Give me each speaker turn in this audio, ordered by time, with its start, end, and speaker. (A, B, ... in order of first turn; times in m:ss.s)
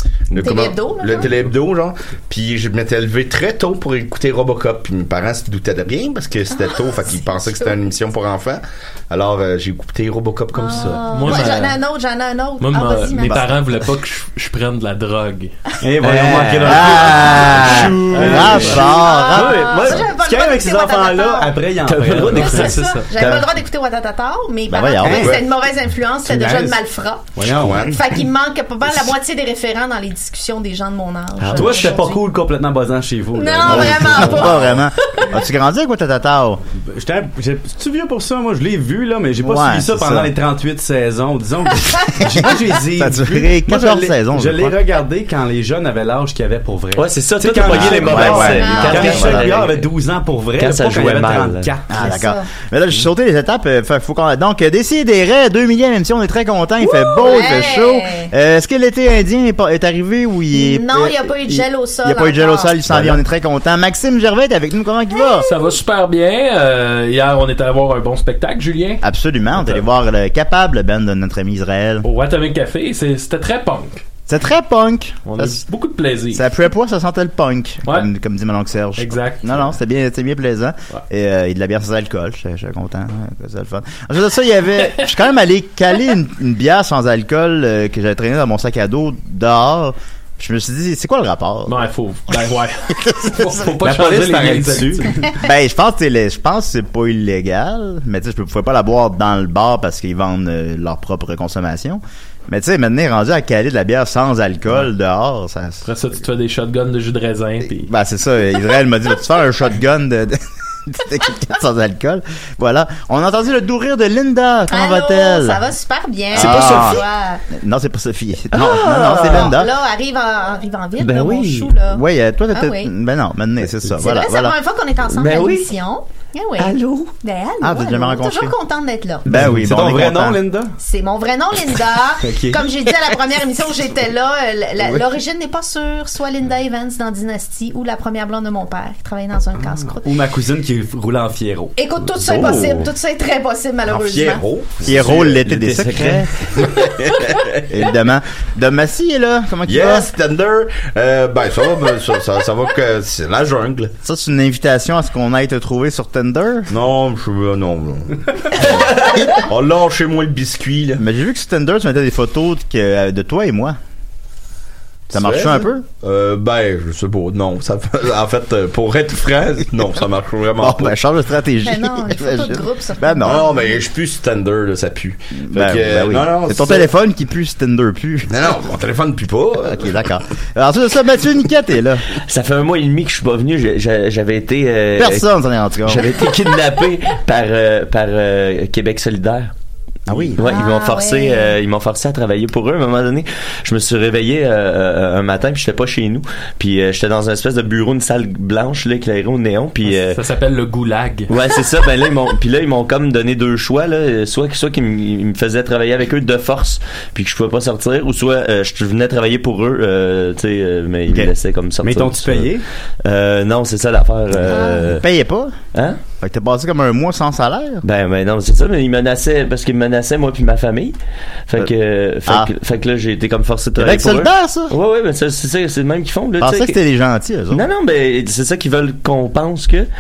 0:00.3-0:11.5 A
0:00.4-0:01.3 B
0:10.5-0:13.5 B
0:11.0-0:11.8 C
0:12.6-0:15.6 C
0:15.8-0:19.0 D
0:16.0-0:20.1 E
0:16.6-0:19.8 F
0:18.6-0:21.5 B
0:19.6-0:22.7 D
0:21.8-0:23.5 E
0:22.2-0:32.2 B
0:22.5-0:23.1 C
0:24.7-0:25.3 F
0:25.0-0:25.4 D
0:26.2-0:26.8 D
0:27.4-0:27.9 D
0:27.4-0:28.0 A
0:31.5-0:34.6 D
0:33.4-0:35.3 B
0:33.7-0:36.6 F
0:36.9-0:52.2 D
0:39.4-0:40.3 F
0:42.2-0:44.8 F
0:47.0-0:49.8 E
0:47.7-0:49.5 F
0:48.5-0:49.1 B
0:50.6-0:51.7 E
0:51.9-1:05.5 F
0:52.1-0:52.5 B
0:56.8-0:58.3 B
1:00.5-1:02.8 B
1:05.3-1:05.7 B
1:05.4-1:09.0 C
1:09.0-1:12.1 F
1:09.6-1:09.8 C
1:12.0-1:14.0 C
1:14.3-1:15.6 F
1:15.3-1:16.4 C
1:16.3-1:31.9 F
1:19.0-1:19.7 C
1:31.7-1:35.2 C
1:33.0-1:33.6 F
1:33.8-1:35.4 D
1:35.4-1:45.9 F
1:45.8-1:47.9 C
1:47.8-1:55.6 F
1:54.7-1:57.4 B
1:56.3-1:59.7 F
1:56.4-1:56.8 E
1:58.5-1:59.6 E
1:59.2-2:02.9 B
2:01.0-2:01.7 E
2:01.9-2:04.6 F
2:04.0-2:09.3 B
2:05.1-2:05.7 E
2:06.6-2:07.1 E
2:07.6-2:08.5 F
2:09.3-2:10.4 F
2:09.3-2:10.8 D
2:10.8-2:20.1 B
2:12.2-2:12.6 D
2:19.8-2:22.8 D
2:21.8-2:24.4 B
2:22.2-2:22.8 E
2:23.9-2:25.4 A
2:24.8-2:26.6 F
2:25.0-2:26.6 E
2:27.7-2:30.1 F
2:29.7-2:33.9 A
2:34.0-2:36.7 F
2:36.7-2:41.0 A
2:41.0-2:43.8 F
2:45.1-2:51.0 A
2:45.1-2:45.8 F
2:50.6-2:53.5 F
2:51.6-2:53.6 B
2:53.2-2:56.9 A
2:55.4-2:58.5 F
2:58.3-3:00.0 A
2:59.6-3:02.0 F
3:02.2-3:05.3 E
3:05.0-3:06.1 F
3:05.9-3:09.5 E
3:10.1-3:10.4 F
3:10.1-3:20.2 E
3:10.4-3:11.6 B
3:19.8-3:21.3 C
3:21.3-3:35.0 E
3:31.8-3:32.6 D
3:34.5-3:34.9 B
3:34.5-3:35.6 F
3:35.7-3:36.0 E
3:36.2-3:37.8 F
3:37.8-3:41.0 E
3:41.5-3:46.8 E
3:43.8-3:44.7 F
3:46.4-3:47.7 F
3:47.5-3:49.9 E